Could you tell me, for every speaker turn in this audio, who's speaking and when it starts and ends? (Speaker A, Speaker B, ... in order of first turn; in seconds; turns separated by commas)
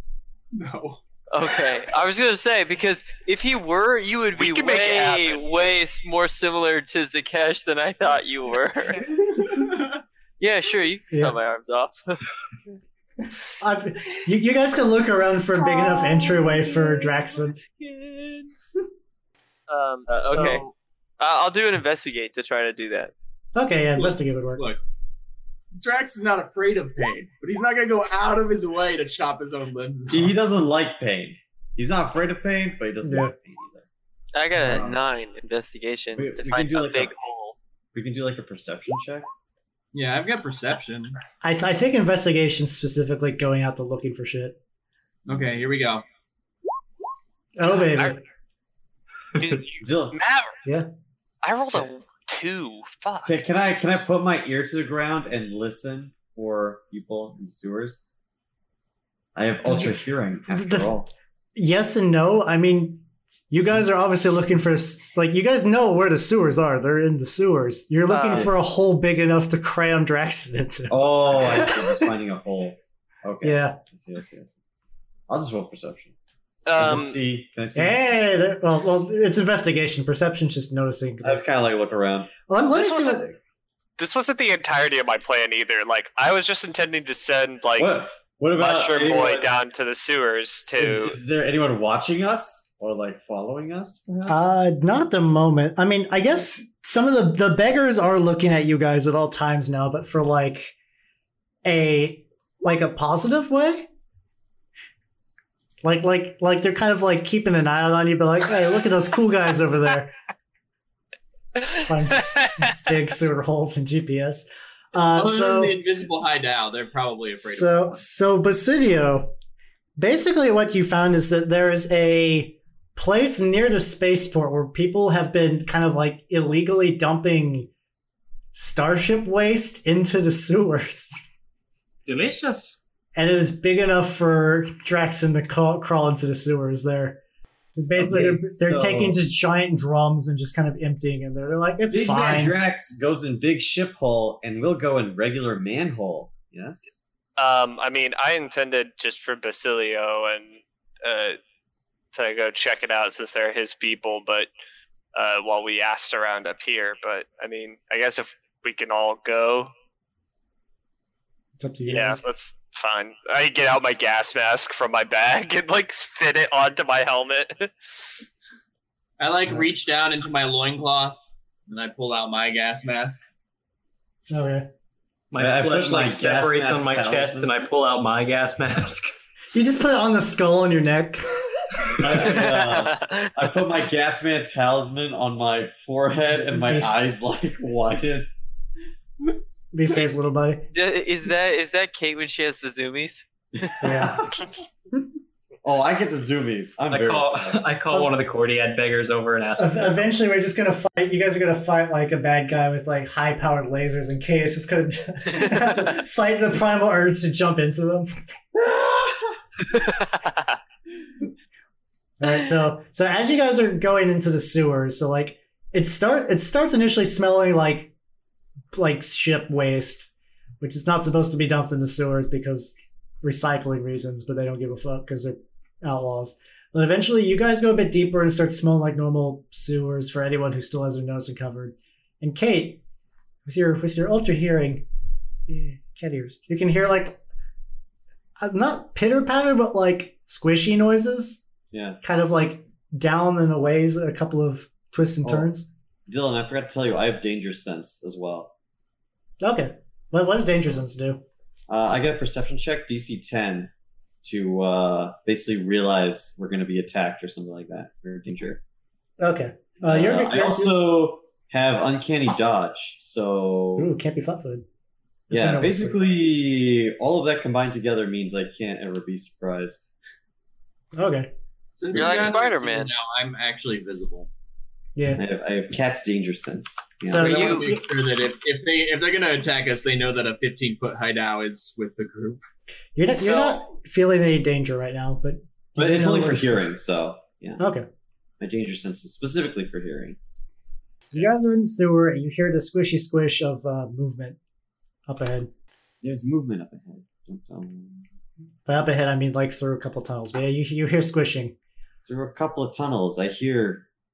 Speaker A: 0.5-1.0, Speaker B: 1.3-9.1, Speaker C: 4.4-5.5, Speaker A: 9.1-10.0, Speaker B: 10.4-12.3, Speaker D: 11.1-11.3, Speaker D: 13.6-17.6, Speaker B: 17.6-18.5, Speaker C: 19.7-20.6, Speaker B: 20.1-20.6, Speaker D: 20.3-20.6, Speaker B: 21.2-23.1, Speaker D: 23.5-24.7, Speaker A: 23.9-24.8, Speaker A: 25.8-30.3, Speaker E: 30.1-33.9, Speaker D: 33.0-33.3, Speaker B: 34.3-37.5, Speaker D: 34.5-34.8, Speaker E: 36.1-37.1, Speaker E: 37.9-39.2, Speaker A: 39.9-41.2, Speaker D: 41.4-44.6, Speaker A: 45.3-46.0, Speaker D: 47.6-48.2, Speaker C: 47.9-48.2, Speaker C: 49.4-50.5, Speaker E: 49.8-50.1, Speaker C: 51.4-53.3, Speaker E: 53.2-58.0, Speaker E: 59.3-61.1, Speaker D: 60.5-60.9, Speaker D: 61.5-72.1, Speaker E: 70.9-74.5, Speaker D: 73.4-73.8, Speaker E: 75.3-76.1, Speaker C: 76.7-77.2, Speaker E: 76.8-78.0, Speaker D: 77.7-81.5, Speaker E: 81.2-82.3, Speaker D: 82.5-83.3, Speaker C: 82.7-83.2, Speaker C: 84.0-88.1, Speaker E: 87.8-89.6, Speaker C: 88.6-91.2, Speaker E: 90.8-94.4, Speaker D: 94.3-100.7, Speaker D: 101.6-103.9, Speaker D: 105.8-110.1, Speaker D: 111.8-115.8, Speaker A: 115.1-118.0, Speaker D: 117.4-119.3, Speaker D: 120.0-127.7, Speaker D: 128.5-131.2, Speaker F: 132.1-132.8, Speaker D: 133.1-137.2, Speaker D: 137.8-142.6, Speaker E: 137.9-139.2, Speaker E: 141.9-146.9, Speaker C: 147.4-151.4, Speaker C: 152.1-154.5, Speaker C: 155.1-159.7, Speaker D: 161.6-162.2, Speaker C: 161.9-167.7, Speaker A: 169.2-173.2, Speaker D: 174.3-174.7, Speaker F: 175.3-179.1, Speaker E: 175.4-177.5, Speaker D: 179.5-182.0, Speaker E: 182.0-188.3, Speaker B: 182.2-183.3, Speaker D: 186.6-187.0, Speaker D: 189.7-190.7, Speaker B: 190.7-194.1, Speaker E: 193.6-194.1, Speaker D: 193.8-194.3, Speaker E: 195.6-197.7, Speaker F: 196.9-200.1, Speaker D: 199.6-208.2, Speaker D: 212.2-217.9, Speaker D: 218.7-232.8, Speaker D: 233.4-234.8, Speaker D: 235.5-237.2, Speaker D: 238.4-241.4, Speaker E: 241.7-242.0, Speaker D: 242.0-245.7, Speaker E: 246.1-248.5, Speaker D: 249.4-251.2, Speaker E: 251.7-253.7, Speaker E: 254.2-258.6, Speaker D: 259.2-260.8, Speaker E: 259.8-263.9, Speaker D: 263.8-264.6, Speaker D: 265.3-266.0, Speaker E: 265.3-269.9, Speaker D: 270.9-271.3, Speaker A: 271.8-274.3, Speaker E: 271.9-272.2, Speaker B: 271.9-272.9, Speaker D: 274.9-275.2, Speaker E: 275.1-277.6, Speaker D: 277.1-277.8, Speaker A: 277.2-282.4, Speaker B: 277.2-277.7, Speaker D: 282.9-286.7, Speaker C: 283.1-283.6, Speaker E: 285.8-287.6, Speaker D: 287.6-287.9, Speaker E: 288.4-290.2, Speaker D: 291.1-294.4, Speaker D: 295.1-295.5, Speaker E: 296.0-298.1, Speaker D: 298.6-301.5, Speaker E: 302.1-303.9